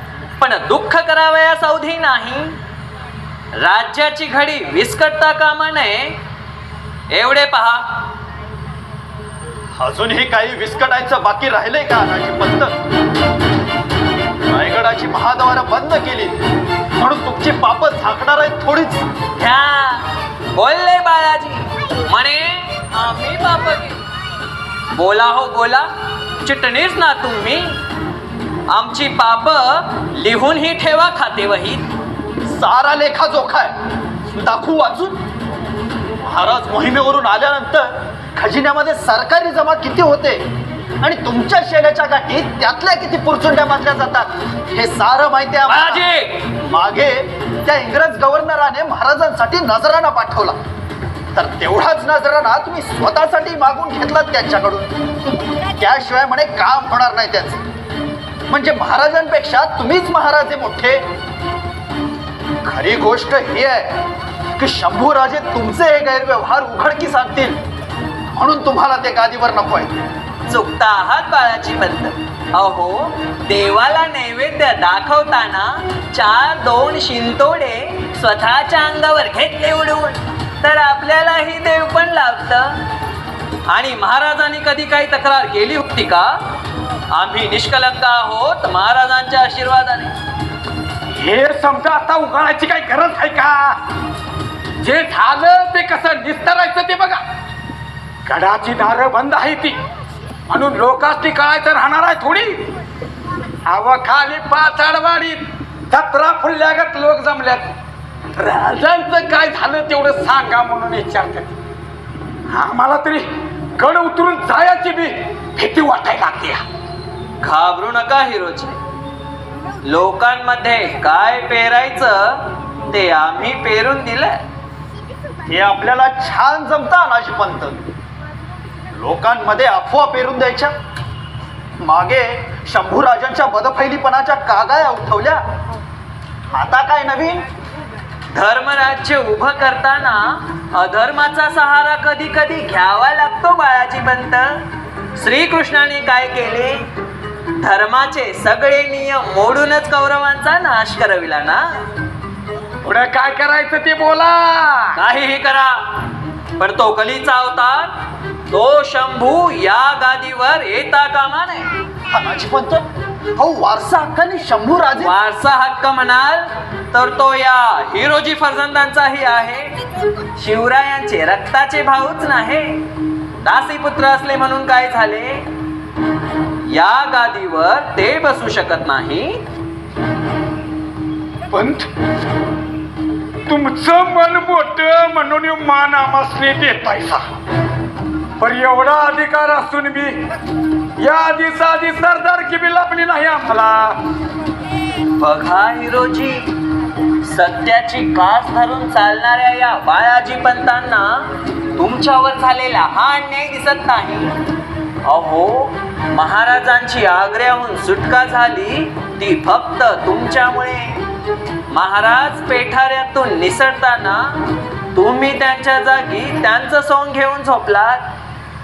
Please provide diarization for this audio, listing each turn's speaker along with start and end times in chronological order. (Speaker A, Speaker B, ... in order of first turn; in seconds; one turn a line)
Speaker A: 0.4-2.6
Speaker A: 3.6-6.2
Speaker A: 7.1-8.0
Speaker B: 9.8-12.7
Speaker B: 14.5-16.3
Speaker B: 17.0-19.0
Speaker A: 19.4-24.0
Speaker A: 24.9-25.9
Speaker A: 26.4-27.8
Speaker A: 28.7-31.9
Speaker B: 32.5-33.7
Speaker B: 34.3-35.2
Speaker B: 36.2-40.4
Speaker B: 41.0-46.0
Speaker A: 45.7-46.5
Speaker B: 46.6-50.5
Speaker B: 51.3-54.9
Speaker B: 55.7-57.6
Speaker B: 58.5-61.0
Speaker B: 62.6-64.0
Speaker B: 64.6-67.6
Speaker B: 68.3-69.9
Speaker A: 70.5-82.8
Speaker A: 83.7-86.4
Speaker A: 87.1-90.1
Speaker C: 91.1-93.8
Speaker C: 94.8-97.2
Speaker C: 98.2-99.8
Speaker C: 100.5-102.7
Speaker C: 103.7-107.7
Speaker C: 108.3-111.5
Speaker C: 112.5-116.6
Speaker A: 117.4-118.8
Speaker A: 119.8-124.4
Speaker B: 125.5-127.8
Speaker B: 128.9-130.7
Speaker B: 131.8-135.4
Speaker B: 136.5-137.4
Speaker A: 138.3-144.6
Speaker A: 145.2-146.8
Speaker A: 147.6-151.8
Speaker C: 152.8-155.0
Speaker A: 154.9-157.9
Speaker A: 158.5-161.7
Speaker B: 162.1-162.8
Speaker B: 163.4-165.1
Speaker A: 165.0-169.7
Speaker A: 170.3-172.8
Speaker A: 173.4-175.5
Speaker A: 176.7-179.4
Speaker C: 181.5-181.9
Speaker C: 183.5-187.2
Speaker C: 188.4-190.2
Speaker C: 191.0-194.0
Speaker A: 195.2-196.5
Speaker A: 197.2-204.3
Speaker A: 205.0-211.0
Speaker A: 211.7-214.4
Speaker A: 214.9-218.0